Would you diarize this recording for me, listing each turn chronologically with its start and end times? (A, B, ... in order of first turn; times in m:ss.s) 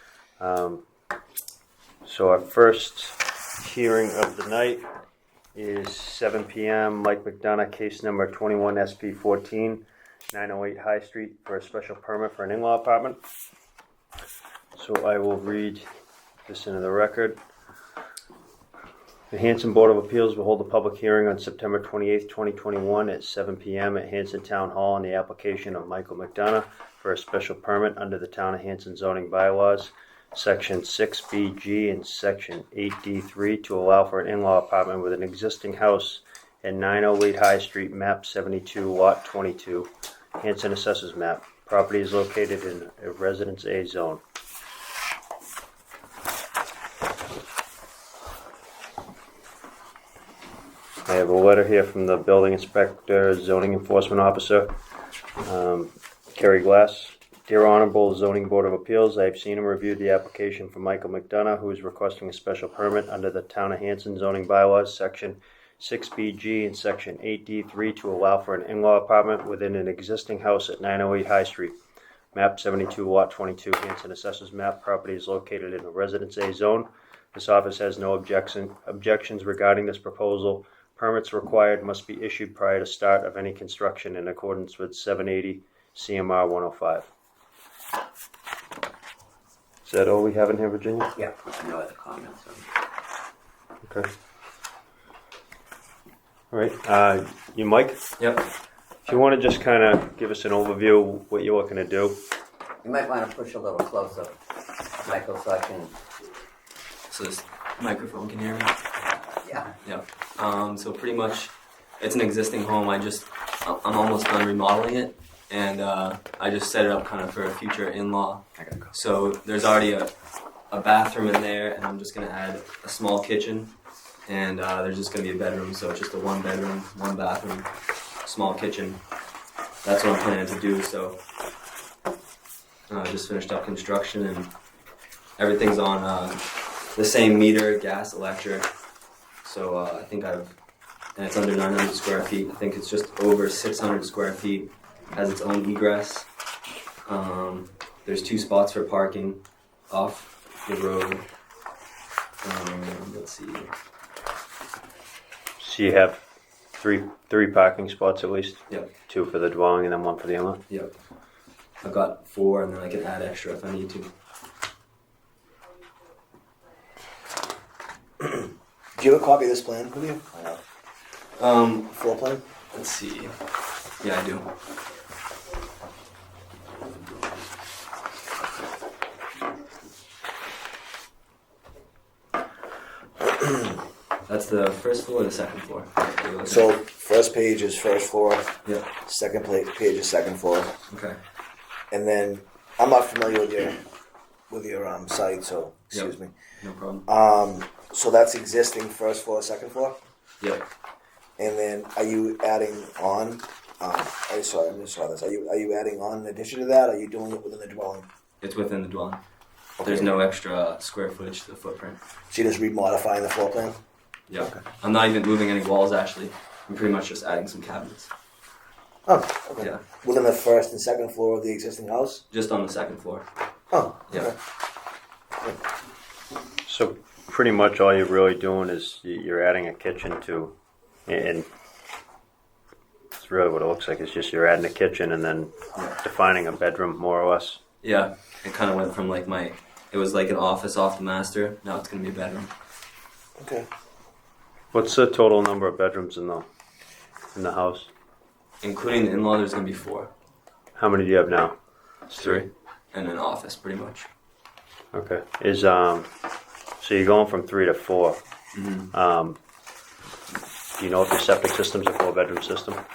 0:00.4-0:00.8 A
0:02.0-0:04.8 A
0:05.5-0:13.2 A
0:14.7-0:15.8 A
0:16.5-0:17.4 A
0:19.3-0:44.2 A
0:51.0-0:54.7 A
0:55.4-1:11.8 A
1:12.3-1:27.1 A
1:29.8-1:31.1 A
1:31.2-1:32.6 B
1:36.5-1:38.0 A
1:38.2-1:38.5 C
1:39.0-1:42.2 A
1:42.8-1:44.4 B
1:45.0-1:46.0 B
1:47.1-1:48.8 C
1:49.0-1:49.7 B
1:49.8-2:00.1 C
2:00.7-2:03.7 C
2:04.3-2:07.7 C
2:08.2-2:09.0 C
2:09.8-2:11.2 C
2:12.9-2:14.5 C
2:15.4-2:18.7 C
2:19.4-2:20.6 C
2:21.2-2:26.3 C
2:27.0-2:31.2 C
2:32.4-2:33.7 C
2:35.6-2:36.2 A
2:36.8-2:40.6 A
2:41.8-2:44.1 C
2:49.0-2:50.6 D
2:51.4-2:51.9 C
2:51.9-2:52.4 D
2:52.7-2:53.4 C
2:54.0-2:54.5 C
3:04.2-3:06.7 C
3:06.4-3:10.8 D
3:10.9-3:11.2 C
3:11.9-3:13.8 D
3:14.5-3:16.3 D
3:15.9-3:17.1 C
3:17.0-3:20.0 D
3:21.4-3:28.1 D
3:28.4-3:29.2 C
3:29.8-3:30.2 D
3:29.8-3:32.0 C
3:32.3-3:33.8 D
3:34.3-3:38.1 C
3:39.0-3:42.2 D
3:42.3-3:43.3 C
3:43.7-3:44.4 D
3:46.6-3:50.5 A
3:51.1-3:51.5 A
3:53.2-3:57.6 A
3:57.8-4:02.5 C
4:03.4-4:03.7 D
4:04.7-4:06.4 A
4:07.3-4:07.9 A
4:08.6-4:10.1 C
4:10.7-4:11.6 A
4:12.1-4:14.1 C
4:12.1-4:12.4 A
4:14.9-4:16.1 A
4:16.8-4:18.2 A
4:18.5-4:18.9 C
4:18.9-4:19.4 A
4:20.8-4:22.8 A